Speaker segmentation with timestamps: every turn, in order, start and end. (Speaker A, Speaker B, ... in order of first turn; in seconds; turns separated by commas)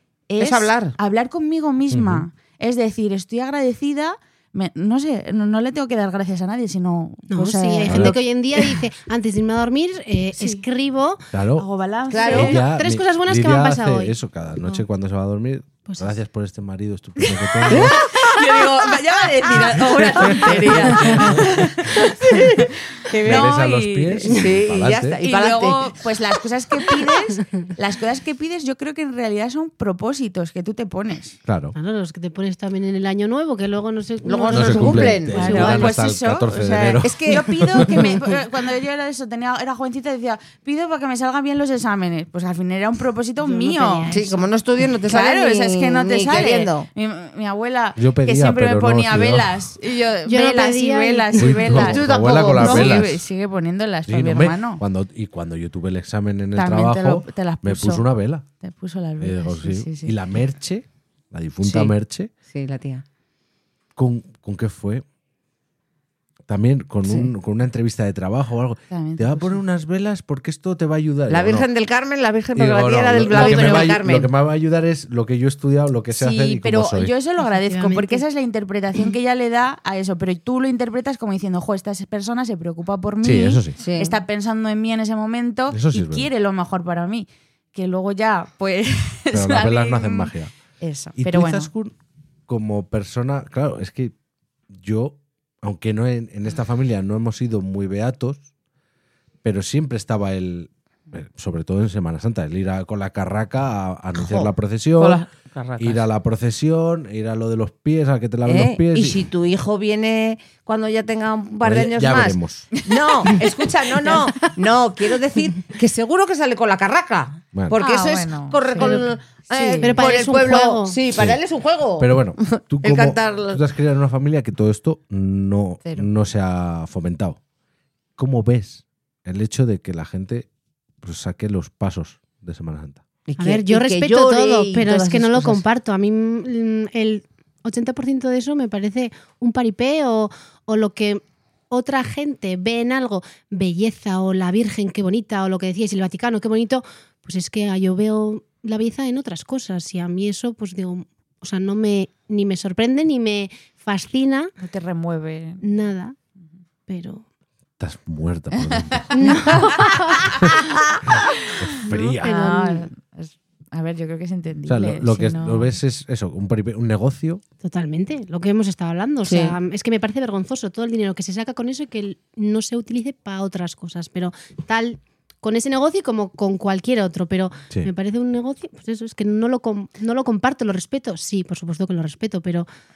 Speaker A: 0.3-8.7, Speaker B: 0.4-0.9, Speaker C: 1.9-2.2, Speaker D: 7.3-11.2, Speaker C: 7.9-8.1, Speaker A: 10.3-10.6, Speaker C: 11.3-11.7, Speaker A: 11.6-12.6, Speaker B: 12.1-12.6, Speaker D: 12.2-14.1, Speaker C: 12.3-18.0, Speaker D: 15.9-16.1, Speaker A: 17.5-24.4, Speaker B: 17.7-23.5, Speaker C: 20.1-21.6, Speaker C: 23.2-25.2, Speaker B: 24.2-26.0, Speaker A: 25.2-31.4, Speaker C: 31.4-31.8, Speaker D: 31.8-35.9, Speaker B: 34.2-35.9, Speaker C: 34.5-38.1, Speaker A: 35.3-44.2, Speaker B: 37.0-38.2, Speaker D: 43.4-44.5, Speaker B: 44.1-46.9, Speaker A: 45.1-54.8, Speaker C: 48.0-49.6, Speaker D: 50.2-51.9, Speaker C: 51.3-53.2, Speaker B: 51.8-53.0, Speaker C: 54.1-58.5, Speaker A: 56.5-58.1, Speaker A: 58.6-60.1, Speaker C: 59.2-62.3, Speaker B: 61.6-61.9, Speaker B: 62.5-63.0, Speaker C: 64.0-65.0, Speaker C: 66.5-71.7, Speaker A: 68.9-69.6, Speaker B: 71.3-74.3, Speaker C: 72.5-77.1, Speaker A: 73.5-73.8, Speaker A: 76.1-91.7, Speaker D: 77.4-78.2, Speaker C: 83.2-83.8, Speaker B: 83.8-84.2, Speaker C: 85.7-86.3, Speaker C: 89.3-90.5, Speaker C: 91.2-91.9, Speaker C: 92.5-94.1, Speaker C: 94.7-98.4, Speaker C: 99.4-105.2, Speaker B: 104.1-106.0, Speaker C: 105.8-109.2, Speaker B: 108.4-123.6, Speaker C: 111.6-112.7, Speaker A: 112.7-113.3, Speaker A: 117.7-120.0, Speaker D: 119.8-121.0, Speaker C: 121.1-121.4, Speaker C: 122.0-127.4, Speaker C: 128.2-130.5, Speaker C: 131.0-133.0, Speaker B: 133.3-135.6, Speaker D: 133.4-154.5, Speaker A: 154.6-155.6, Speaker D: 155.6-156.2, Speaker D: 156.9-157.2, Speaker C: 157.8-159.4, Speaker A: 158.7-159.5, Speaker D: 159.1-160.5, Speaker C: 161.6-162.3, Speaker D: 161.8-162.9, Speaker A: 162.2-165.7, Speaker C: 164.7-167.4, Speaker D: 167.6-182.7, Speaker B: 169.2-169.6